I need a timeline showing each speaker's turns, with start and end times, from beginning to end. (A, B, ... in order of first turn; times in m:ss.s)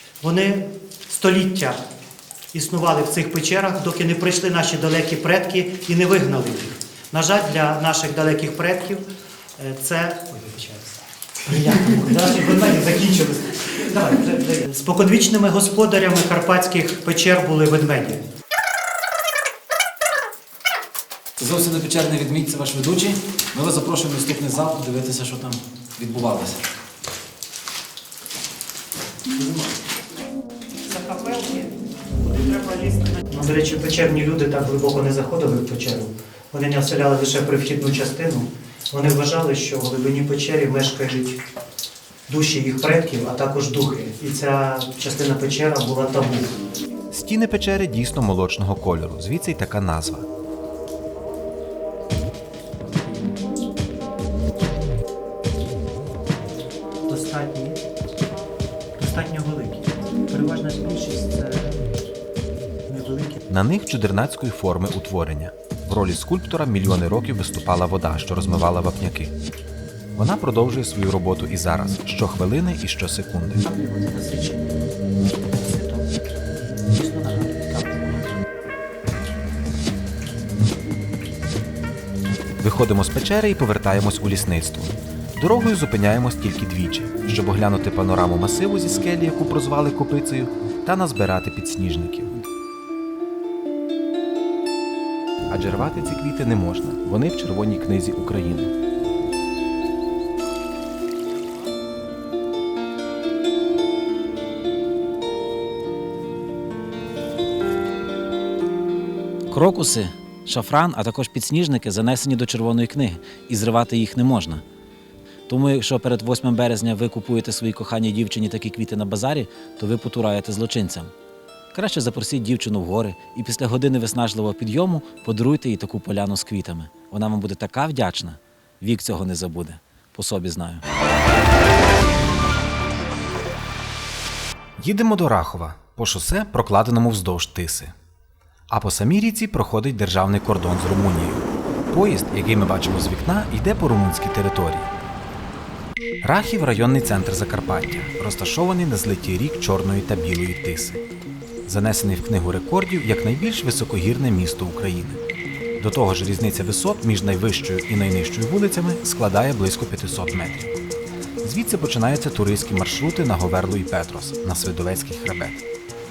0:00.2-0:01.8 A
0:02.5-0:18.2 A
0:21.4-0:26.4 B
0:29.4-0:29.7 A
0:30.9-0:31.7 A
0:32.3-0:41.4 A
0:42.3-0:46.5 A
0:47.1-0:50.3 C
0:57.1-0:57.8 A
0:59.0-1:01.9 A
1:02.8-1:03.4 A
1:03.5-1:09.3 C
1:10.2-1:13.6 C
1:13.6-1:16.1 A
1:16.6-1:18.4 A
1:22.6-1:32.4 C
1:35.5-1:38.7 C
1:49.5-1:49.8 B
1:50.5-1:54.2 B
1:55.5-1:57.6 B
1:58.7-2:00.2 B
2:01.8-2:08.0 B
2:02.2-2:02.7 C
2:08.8-2:10.7 B
2:14.8-2:17.9 C
2:18.7-2:24.9 C
2:26.2-2:31.0 C
2:31.6-2:35.2 C
2:35.8-2:40.7 C
2:41.4-2:45.6 C